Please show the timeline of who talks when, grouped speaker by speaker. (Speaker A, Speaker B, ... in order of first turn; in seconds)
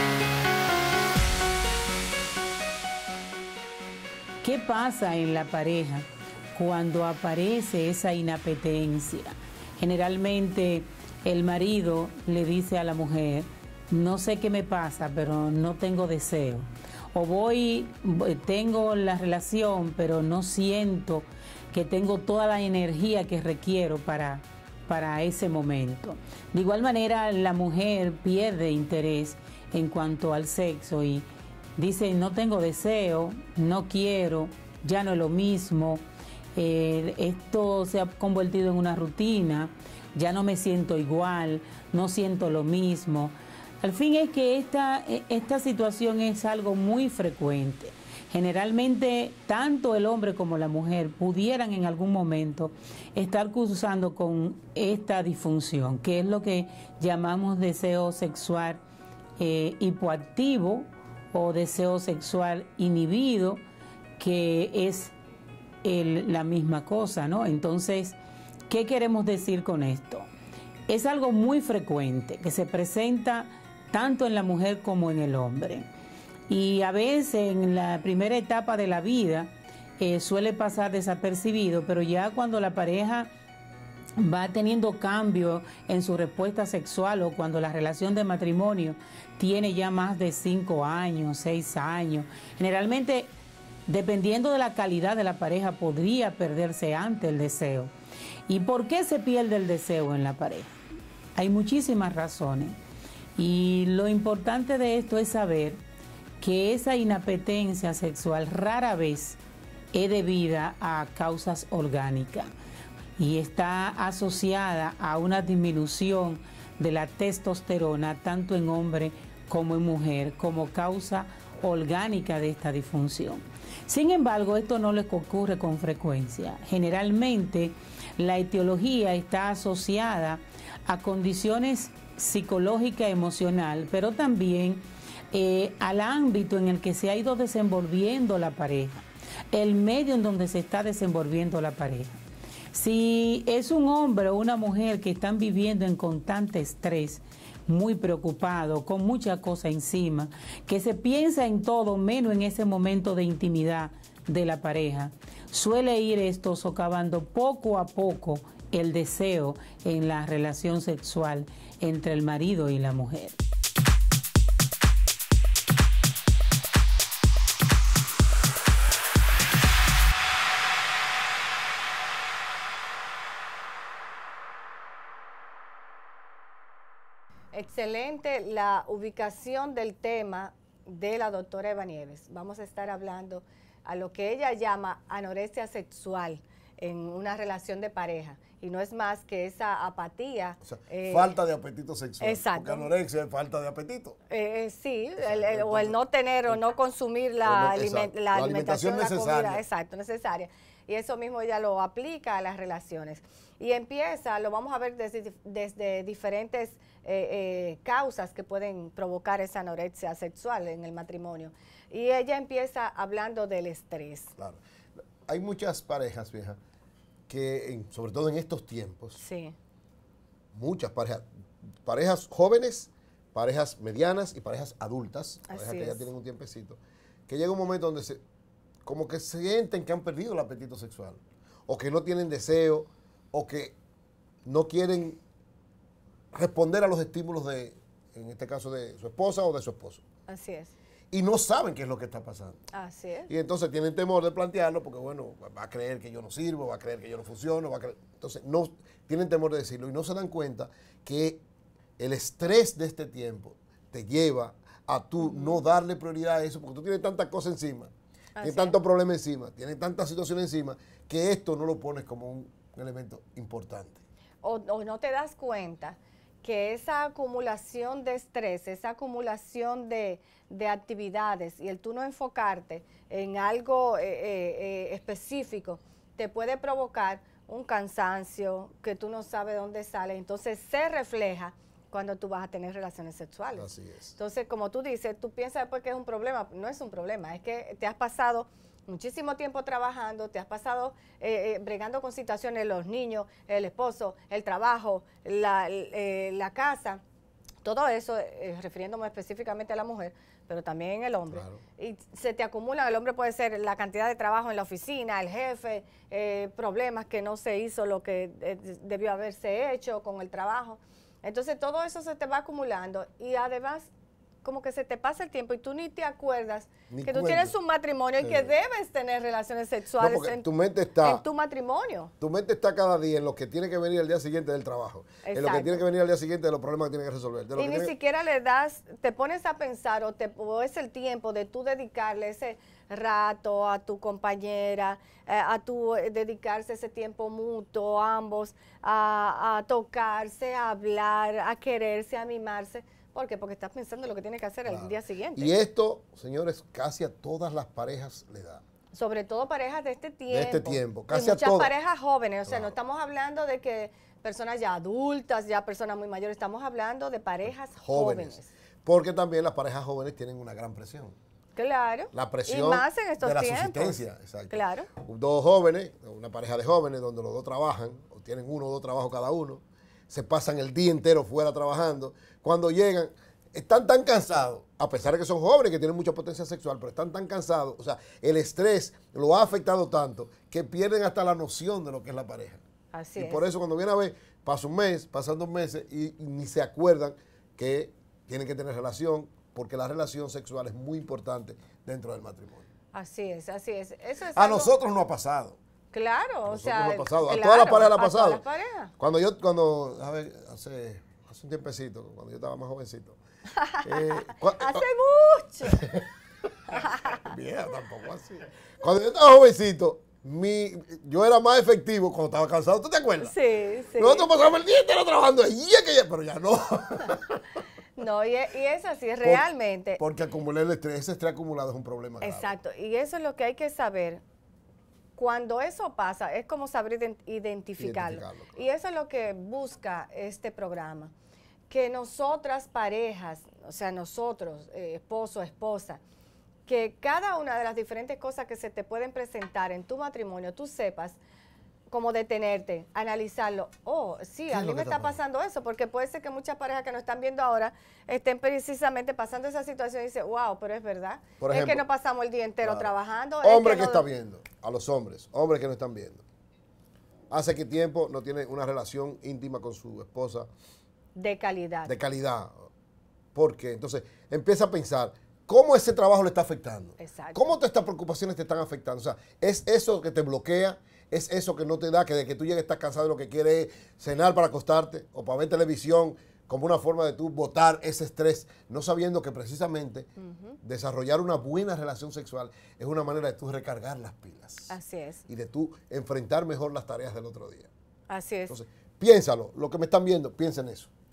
Speaker A: 4.4-36.0, 36.5-58.8, 59.4-63.6, 64.2-65.1, 65.8-68.2, 68.7-70.3, 70.9-75.8, 76.5-83.3, 84.2-93.3, 93.9-97.9, 98.5-100.7, 101.3-102.8, 103.4-105.8, 106.4-109.4, 109.9-112.5, 113.2-142.2, 142.7-163.4
Speaker B: 177.5-191.4, 192.2-192.9, 194.3-214.3, 219.2-219.5, 225.5-226.1, 240.3-240.7, 242.7-243.3, 255.2-255.6, 258.4-258.8, 264.4-297.0, 297.6-313.9, 314.4-320.5, 321.0-322.1, 325.2-325.8, 327.5-345.6, 348.9-358.5, 361.6-364.9, 382.9-383.4, 392.9-394.7, 395.9-398.9, 403.6-405.8, 406.7-407.2, 413.2-414.3, 417.9-420.0, 422.2-424.2, 425.1-431.1, 431.7-436.0, 436.6-441.2, 441.9-454.1, 461.1-461.9, 467.0-467.5, 480.2-480.6, 484.7-485.2, 488.1-488.5
Speaker C: 190.6-194.2, 195.2-196.6, 197.4-199.6, 215.2-216.6, 217.3-219.2, 220.5-221.3, 221.8-228.2, 228.8-233.8, 234.4-235.2, 236.3-240.0, 241.1-242.6, 243.3-251.4, 252.0-264.0, 283.5-284.1, 301.3-301.6, 316.9-317.5, 318.2-318.5, 320.0-321.2, 322.2-327.9, 344.6-348.6, 350.3-351.7, 352.4-352.7, 357.8-361.2, 362.1-382.6, 383.2-392.7, 394.3-395.6, 396.4-398.4, 399.0-403.2, 403.8-404.9, 405.6-406.1, 406.7-413.3, 414.0-417.4, 420.0-422.5, 427.8-428.6, 444.5-445.2, 451.4-451.9, 452.6-456.2, 457.3-460.5, 461.9-462.7, 463.3-480.1, 480.6-484.7, 485.3-487.7, 488.5-490.9